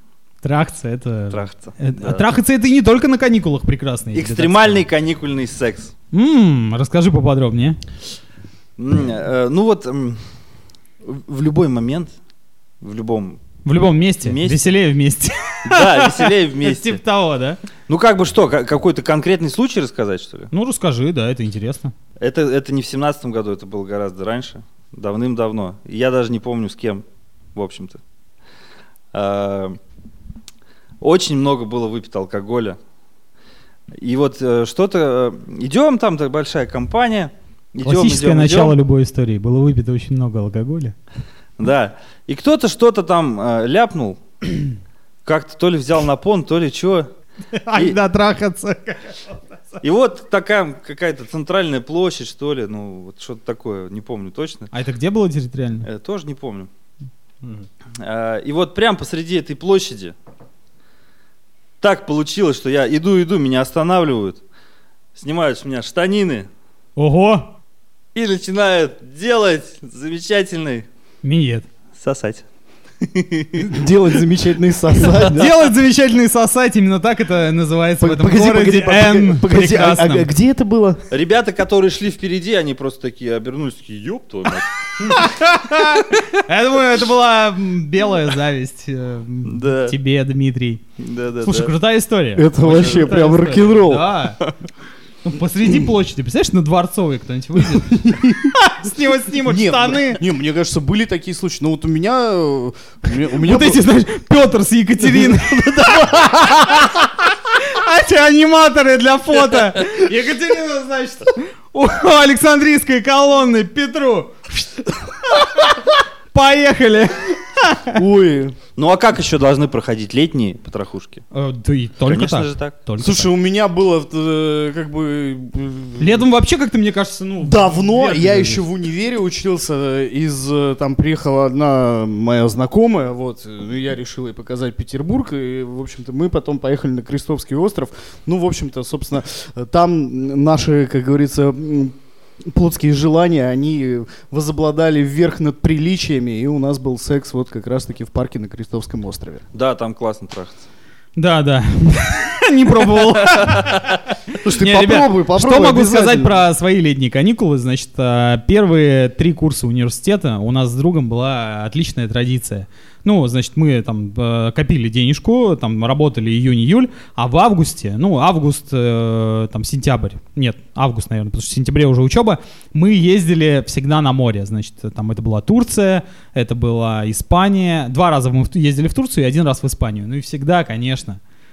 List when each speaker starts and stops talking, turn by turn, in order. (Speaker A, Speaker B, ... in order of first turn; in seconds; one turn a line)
Speaker A: 0.4-4.8
Speaker B: 1.3-2.3
Speaker B: 4.1-5.9
Speaker A: 6.1-7.8
Speaker B: 8.8-10.2
Speaker B: 11.0-12.1
Speaker B: 12.8-13.4
Speaker A: 13.6-17.6
Speaker B: 14.2-14.7
Speaker B: 15.7-17.0
Speaker B: 17.9-20.5
Speaker A: 20.5-21.9
Speaker B: 22.2-27.0
Speaker B: 27.5-28.0
Speaker B: 29.1-29.8
Speaker B: 31.0-32.8
Speaker B: 34.0-38.7
Speaker A: 37.9-41.0
Speaker B: 41.6-44.2
Speaker B: 45.2-47.1
Speaker A: 47.5-49.8
Speaker B: 49.8-54.7
Speaker A: 54.7-55.9
Speaker B: 55.8-56.7
Speaker B: 58.0-60.1
Speaker B: 61.8-64.4
Speaker B: 65.1-66.5
Speaker A: 67.0-67.5
Speaker B: 68.1-70.8
Speaker A: 71.2-71.7
Speaker B: 72.0-72.4
Speaker B: 73.0-73.7
Speaker C: 73.5-75.5
Speaker B: 75.0-75.4
Speaker A: 75.3-80.3
Speaker C: 78.0-81.0
Speaker B: 81.1-85.2
Speaker A: 85.0-90.8
Speaker B: 89.4-89.9
Speaker B: 91.0-91.7
Speaker A: 91.4-94.4
Speaker C: 92.3-94.1
Speaker A: 95.2-100.2
Speaker C: 97.5-98.5
Speaker C: 99.3-103.8
Speaker A: 103.3-118.0
Speaker C: 105.0-106.9
Speaker C: 117.9-118.5
Speaker B: 118.8-121.2
Speaker A: 121.3-123.3
Speaker B: 122.0-122.8
Speaker C: 123.0-126.2
Speaker A: 126.0-128.6
Speaker C: 127.4-149.4
Speaker B: 149.5-150.6
Speaker A: 151.2-181.2
Speaker C: 154.4-156.4